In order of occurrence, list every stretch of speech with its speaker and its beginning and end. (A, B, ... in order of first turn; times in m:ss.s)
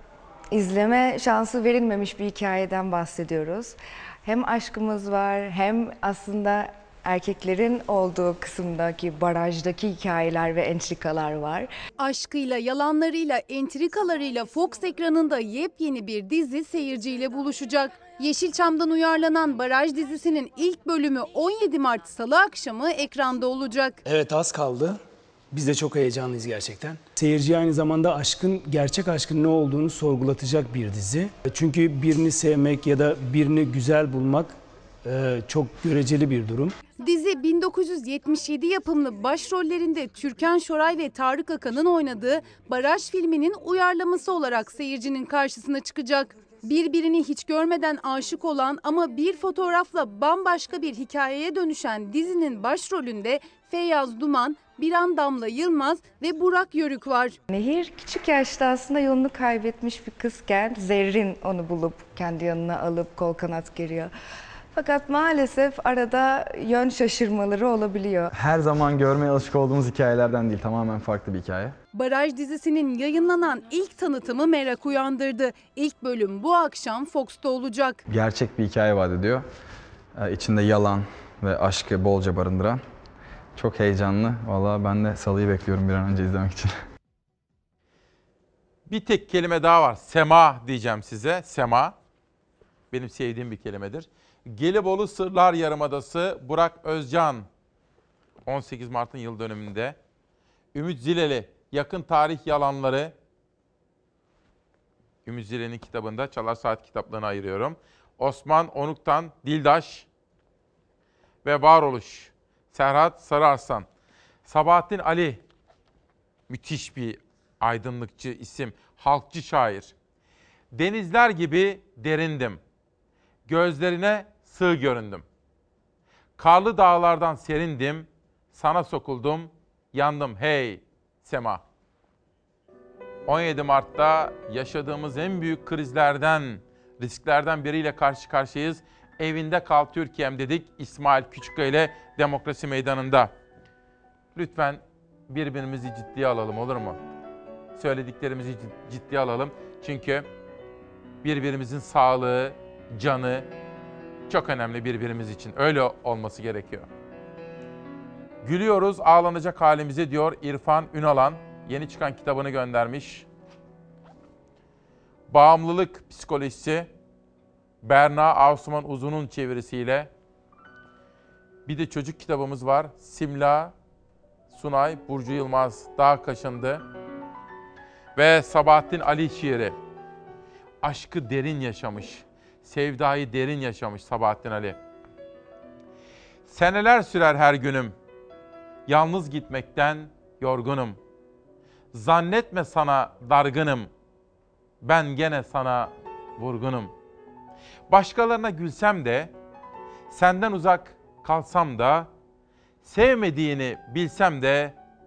0:00.5-0:11.7 A
0:12.0-0:24.0 B
0:24.0-0:36.8 C
0:36.9-0:57.4 B
0:57.5-1:04.1 A
1:04.7-1:08.3 A
1:08.3-1:11.8 D
1:11.9-1:18.0 B
1:18.1-1:19.4 D
1:20.2-1:22.8 D
1:23.6-1:26.8 D
1:28.9-1:31.9 E
1:32.9-1:37.4 E
1:38.4-1:40.0 E
1:40.7-1:43.1 E
1:45.2-1:50.1 E
1:51.4-1:53.8 E
1:54.4-1:55.4 E
1:56.5-1:59.9 E
2:00.7-2:02.6 E
2:03.5-2:05.2 E
2:06.4-2:11.6 E
2:13.3-2:23.3 E
2:24.3-2:27.0 E
2:27.8-2:30.2 E
2:31.2-2:33.5 E
2:34.3-2:36.9 E
2:38.4-2:43.2 E
2:45.3-2:46.9 E
2:47.8-2:50.1 E
2:51.6-2:53.7 E
2:54.5-2:56.8 E
2:58.2-2:59.8 E
3:00.8-3:04.8 E
3:06.5-3:07.9 E
3:08.9-3:11.0 E
3:11.9-3:13.9 E
3:14.8-3:16.9 E
3:17.9-3:19.3 E
3:20.1-3:22.1 E
3:22.8-3:24.8 E